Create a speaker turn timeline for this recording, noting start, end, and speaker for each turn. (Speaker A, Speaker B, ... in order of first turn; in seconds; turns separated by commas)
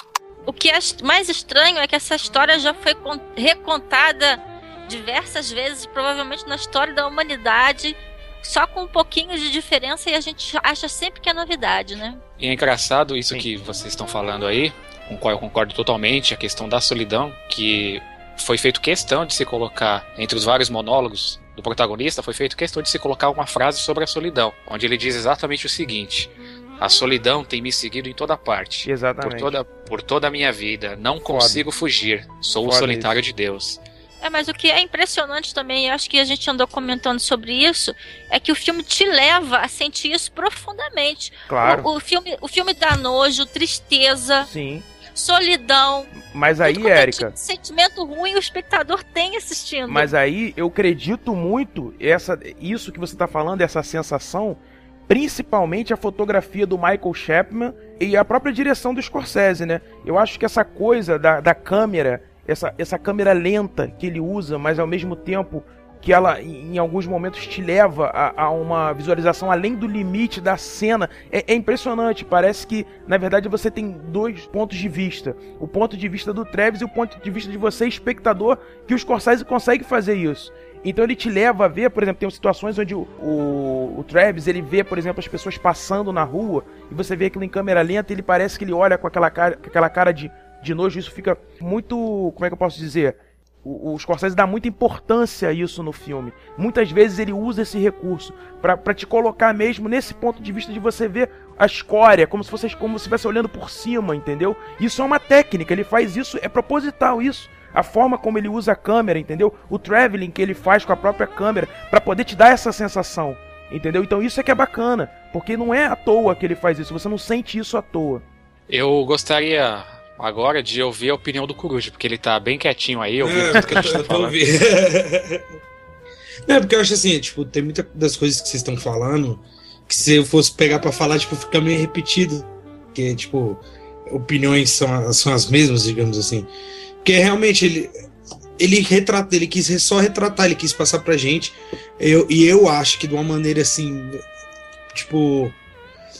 Speaker A: 0.5-12.2, Speaker B: 12.4-33.8, Speaker C: 28.8-29.5, Speaker C: 31.3-31.6, Speaker C: 32.6-33.1, Speaker A: 34.2-44.5, Speaker C: 41.5-41.9, Speaker C: 44.4-44.9, Speaker A: 45.1-46.1, Speaker C: 46.1-47.3, Speaker A: 46.6-50.1, Speaker C: 49.9-118.2, Speaker B: 118.7-124.4, Speaker D: 123.2-125.4, Speaker C: 123.5-123.8, Speaker D: 126.5-136.5, Speaker D: 137.0-137.9, Speaker D: 138.6-144.2, Speaker D: 144.9-145.6